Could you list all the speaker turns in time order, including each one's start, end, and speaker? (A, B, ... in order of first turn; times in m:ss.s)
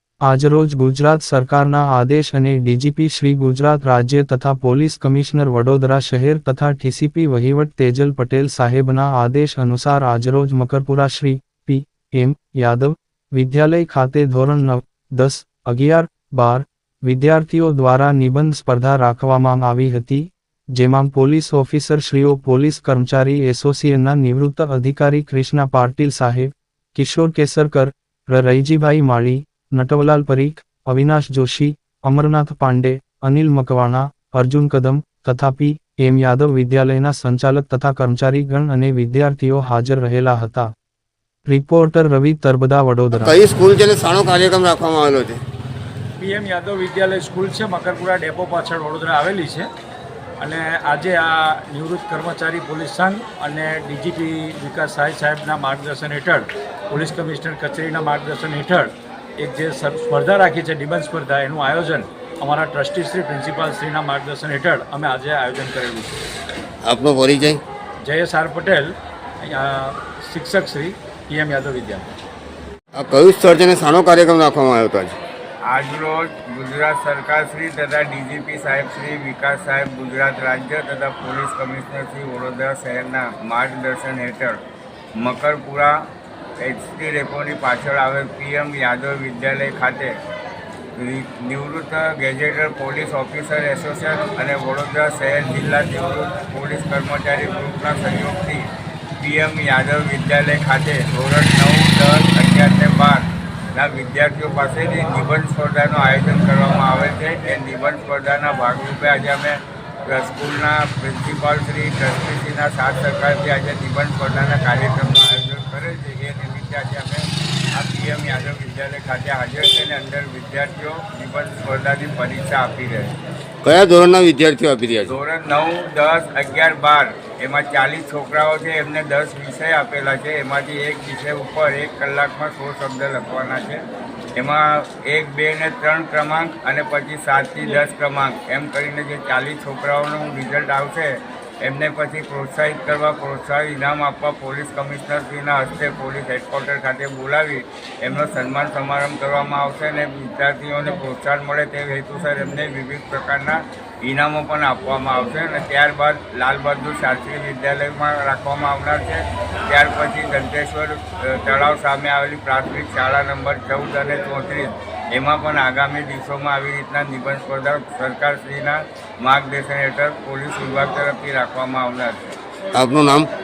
0:00.2-0:40.7 A
0:41.5-0:43.4 A
0:43.2-0:45.4 B
0:46.2-0:49.7 C
0:50.4-1:06.2 C
1:06.8-1:07.6 B
1:08.0-1:12.1 C
1:12.9-1:15.1 B
1:15.6-1:24.6 D
1:25.2-1:26.0 D
1:26.6-1:30.1 D
1:31.0-1:38.7 D
1:39.2-2:03.1 D
2:03.6-2:05.1 B
2:05.1-2:13.8 D
2:14.4-2:52.4 D
2:52.8-2:53.3 B